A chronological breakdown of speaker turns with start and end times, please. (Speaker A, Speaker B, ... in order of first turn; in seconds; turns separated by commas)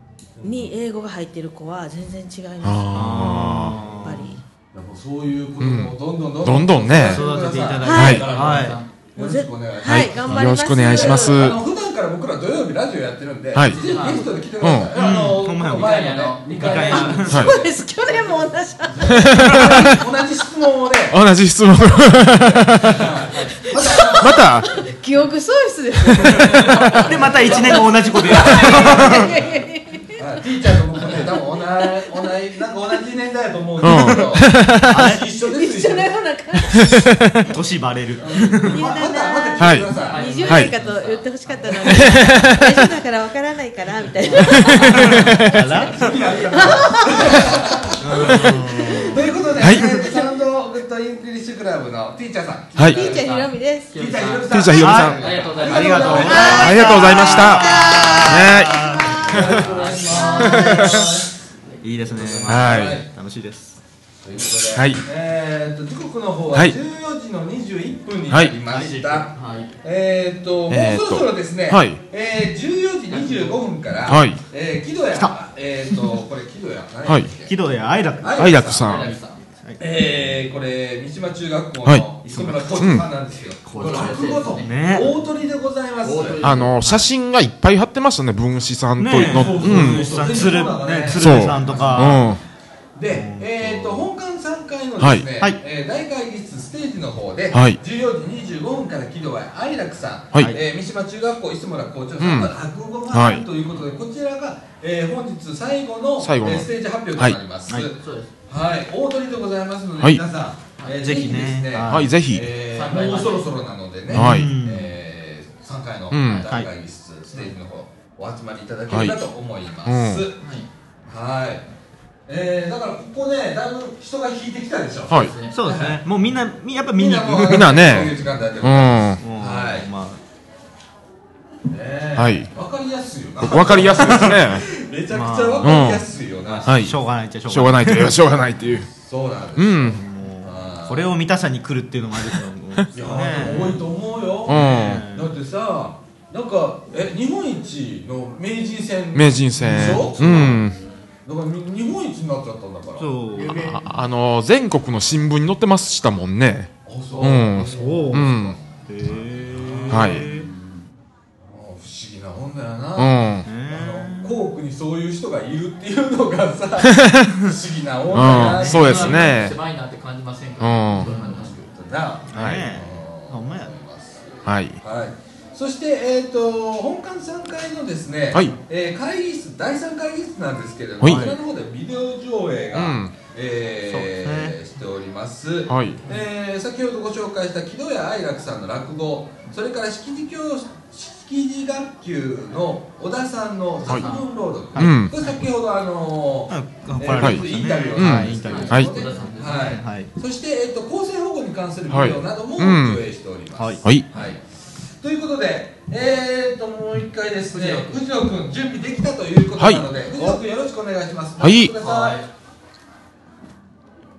Speaker A: 0.4-0.7, Speaker B: 0.4-4.4, Speaker C: 2.6-3.8, Speaker D: 2.9-4.3, Speaker A: 4.7-17.7, Speaker C: 5.6-7.3, Speaker D: 6.9-8.8, Speaker B: 7.8-8.2, Speaker C: 7.9-8.2, Speaker E: 8.3-8.9, Speaker B: 9.2-11.5, Speaker C: 9.8-11.6, Speaker C: 13.5-13.8, Speaker E: 13.7-14.4, Speaker C: 14.6-14.9, Speaker D: 14.9-17.5, Speaker E: 15.6-17.2, Speaker B: 16.9-19.6, Speaker A: 18.8-21.2, Speaker C: 19.1-20.0, Speaker C: 21.1-23.0, Speaker A: 22.4-24.4, Speaker B: 23.7-30.2, Speaker C: 24.1-24.8, Speaker A: 26.1-29.6, Speaker D: 26.9-29.3, Speaker A: 30.1-36.1, Speaker B: 31.1-32.3, Speaker C: 33.8-35.0, Speaker D: 34.9-35.2, Speaker B: 35.4-36.9, Speaker D: 37.4-39.0, Speaker A: 38.2-40.4, Speaker B: 38.6-45.9, Speaker C: 39.6-39.9, Speaker E: 39.9-42.2, Speaker C: 40.4-40.7, Speaker C: 41.9-42.8, Speaker C: 44.5-45.4, Speaker D: 45.0-46.8, Speaker A: 45.7-53.4, Speaker B: 46.5-47.3, Speaker D: 48.0-50.2, Speaker B: 48.2-50.0, Speaker C: 49.6-49.9, Speaker C: 52.8-53.0, Speaker B: 52.8-53.9, Speaker E: 53.0-56.7, Speaker A: 53.9-56.8, Speaker C: 54.5-55.4, Speaker D: 54.7-59.2, Speaker B: 56.0-59.3, Speaker C: 56.4-59.6, Speaker A: 59.2-61.3, Speaker E: 59.4-61.1, Speaker B: 60.1-61.0, Speaker C: 60.4-61.0, Speaker E: 61.7-62.7, Speaker D: 61.8-63.8, Speaker A: 62.2-63.1, Speaker C: 62.5-63.0, Speaker A: 64.2-77.5, Speaker C: 64.7-65.0, Speaker C: 68.3-68.5, Speaker E: 68.7-69.7, Speaker C: 70.7-72.0, Speaker E: 73.1-73.7, Speaker C: 74.1-74.4, Speaker D: 75.1-76.2, Speaker C: 77.0-77.3, Speaker D: 77.5-78.6, Speaker A: 78.2-79.1, Speaker C: 78.4-79.1, Speaker E: 78.8-79.4, Speaker D: 79.6-80.3, Speaker A: 79.8-86.6, Speaker D: 82.2-83.0, Speaker C: 82.7-83.1, Speaker E: 83.7-85.2, Speaker D: 83.7-85.1, Speaker E: 86.0-87.1, Speaker C: 86.4-90.4, Speaker D: 89.0-92.3, Speaker A: 89.1-92.3, Speaker C: 91.1-92.4, Speaker A: 92.9-120.4, Speaker D: 93.1-94.1, Speaker C: 95.0-95.3, Speaker C: 97.5-97.8, Speaker C: 102.2-102.5, Speaker C: 103.1-103.5, Speaker C: 106.2-107.4, Speaker E: 108.0-108.3, Speaker D: 111.0-112.1, Speaker C: 111.8-112.5, Speaker E: 112.7-113.5, Speaker D: 114.1-114.9, Speaker C: 114.1-114.5, Speaker C: 116.1-116.5, Speaker C: 118.9-119.2, Speaker C: 119.8-120.3, Speaker E: 120.4-120.7, Speaker A: 121.0-121.7, Speaker A: 122.3-126.4, Speaker C: 125.1-125.3, Speaker E: 125.1-125.6, Speaker D: 125.5-128.1, Speaker A: 126.9-129.9, Speaker C: 127.4-129.2, Speaker D: 129.2-130.2, Speaker A: 131.7-136.9, Speaker C: 132.2-132.5, Speaker C: 133.4-134.6, Speaker D: 133.5-134.5, Speaker D: 135.1-138.2, Speaker C: 135.6-136.1, Speaker C: 136.6-138.9, Speaker A: 138.9-141.1, Speaker C: 139.6-140.0, Speaker D: 139.9-143.9, Speaker A: 142.9-150.6, Speaker C: 144.4-145.0, Speaker D: 144.5-145.3, Speaker C: 149.1-150.8, Speaker D: 149.7-150.6, Speaker A: 151.2-153.2, Speaker D: 153.0-153.7, Speaker C: 153.6-158.6, Speaker A: 156.8-158.6, Speaker D: 157.3-160.5, Speaker A: 159.1-160.3, Speaker C: 159.9-160.2, Speaker A: 161.4-169.5, Speaker C: 162.9-163.5, Speaker D: 163.4-164.4, Speaker C: 166.8-167.4, Speaker C: 168.1-169.6, Speaker E: 168.2-171.6, Speaker C: 170.6-171.1, Speaker A: 171.0-204.4, Speaker D: 172.3-173.7, Speaker C: 172.3-172.6, Speaker C: 174.4-174.8, Speaker C: 178.3-178.6, Speaker C: 181.0-181.3, Speaker D: 181.0-181.4, Speaker C: 182.7-183.2, Speaker D: 183.9-184.6, Speaker C: 185.7-186.0, Speaker E: 193.8-194.3, Speaker D: 194.7-195.1, Speaker C: 194.8-195.1, Speaker D: 196.5-200.1, Speaker C: 197.2-198.9, Speaker E: 198.4-199.8, Speaker C: 201.9-203.0, Speaker D: 203.6-203.9, Speaker C: 203.8-204.1, Speaker A: 205.0-212.2, Speaker E: 207.5-208.0, Speaker C: 209.6-209.9, Speaker D: 210.2-210.4, Speaker C: 211.4-211.7, Speaker E: 211.8-212.3